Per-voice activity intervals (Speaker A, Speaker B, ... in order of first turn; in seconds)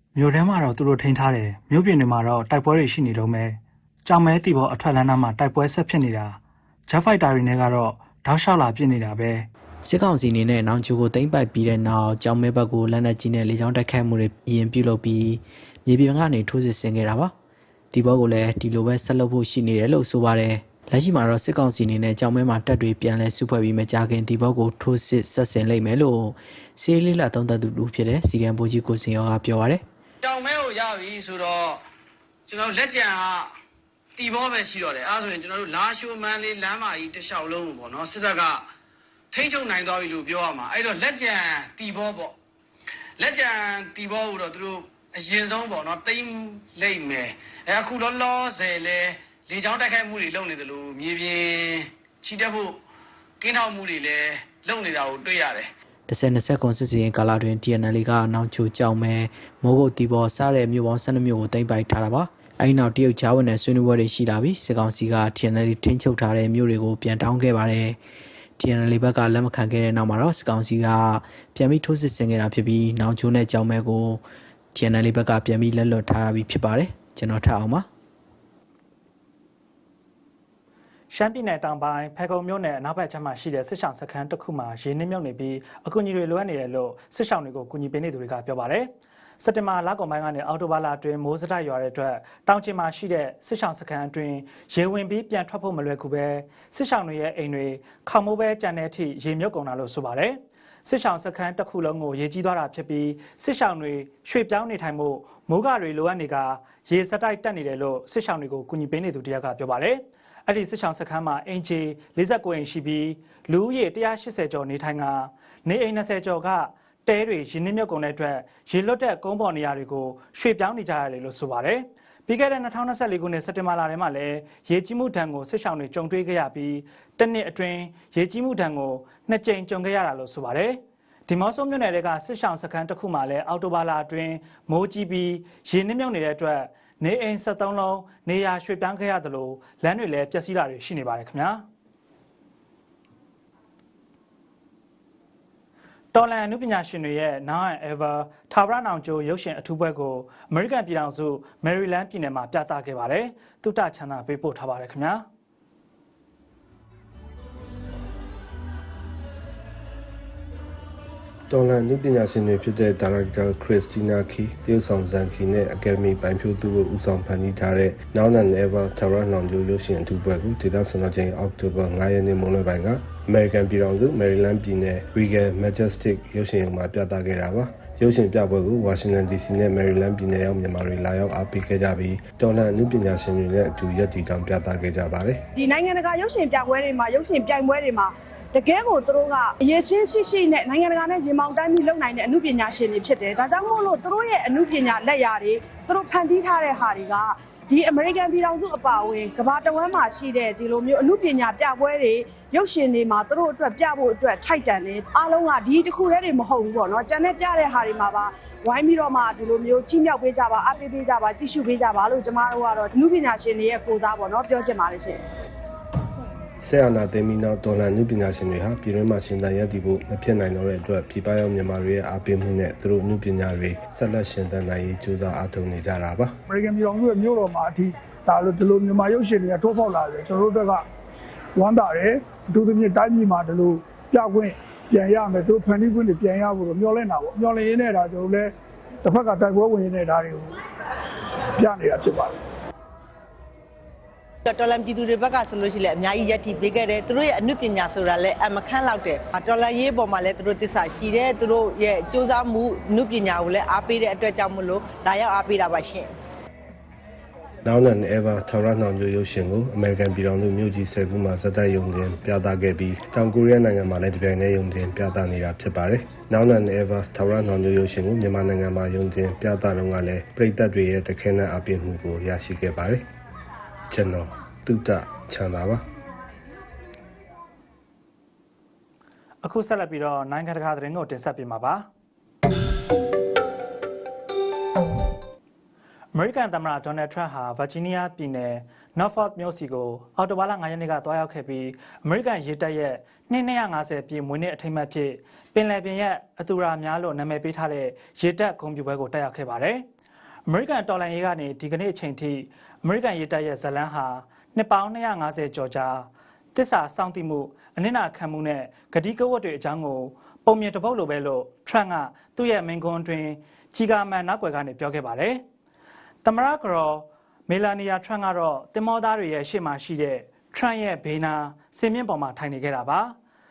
Speaker A: 0.1-9.5, 81.1-88.9, 89.4-141.6, 146.1-155.2, 279.4-281.9, 286.1-299.8, 300.5-315.4, 316.2-323.1
Speaker B: 9.8-17.3, 17.9-29.8, 56.1-68.0, 68.6-74.2, 74.7-77.8
Speaker C: 30.2-31.8, 32.5-33.5, 34.1-38.6, 39.3-42.4, 43.2-52.8, 53.4-55.7
Speaker D: 161.5-185.4, 216.6-226.3, 257.6-273.0, 273.9-275.8
Speaker E: 185.6-215.2
Speaker F: 226.5-230.8, 231.6-238.5, 239.0-240.5, 241.6-242.3
Speaker G: 244.4-256.1